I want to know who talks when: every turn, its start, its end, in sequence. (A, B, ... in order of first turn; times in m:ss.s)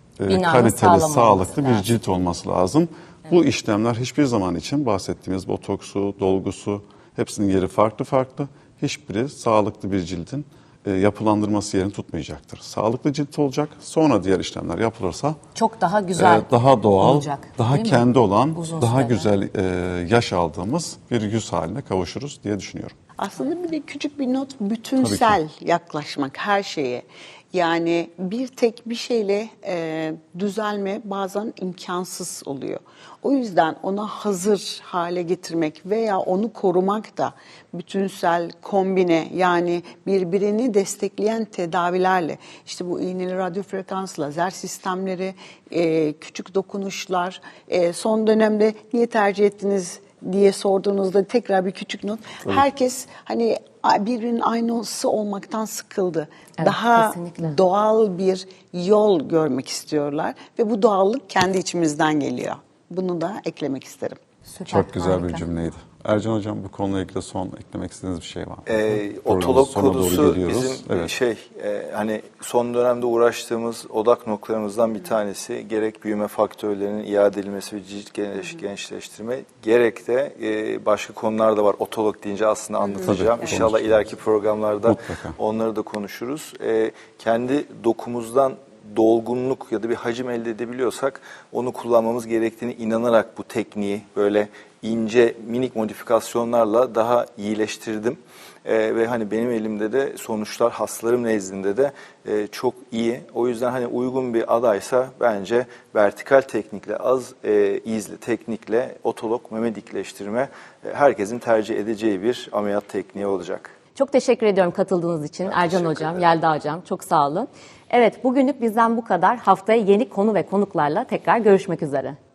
0:00.2-0:15.4 A
0:00.3-0:01.9 B
0:15.5-0:19.3 B
0:16.2-0:22.9 A
0:23.2-1:04.2 C
0:25.0-0:25.4 A
0:56.6-0:57.6 B
1:04.5-1:05.4 B
1:04.7-1:11.1 A
1:08.7-1:53.7 D
1:23.0-1:24.0 A
1:24.8-1:25.4 A
1:54.0-2:02.2 B
1:55.4-1:56.2 D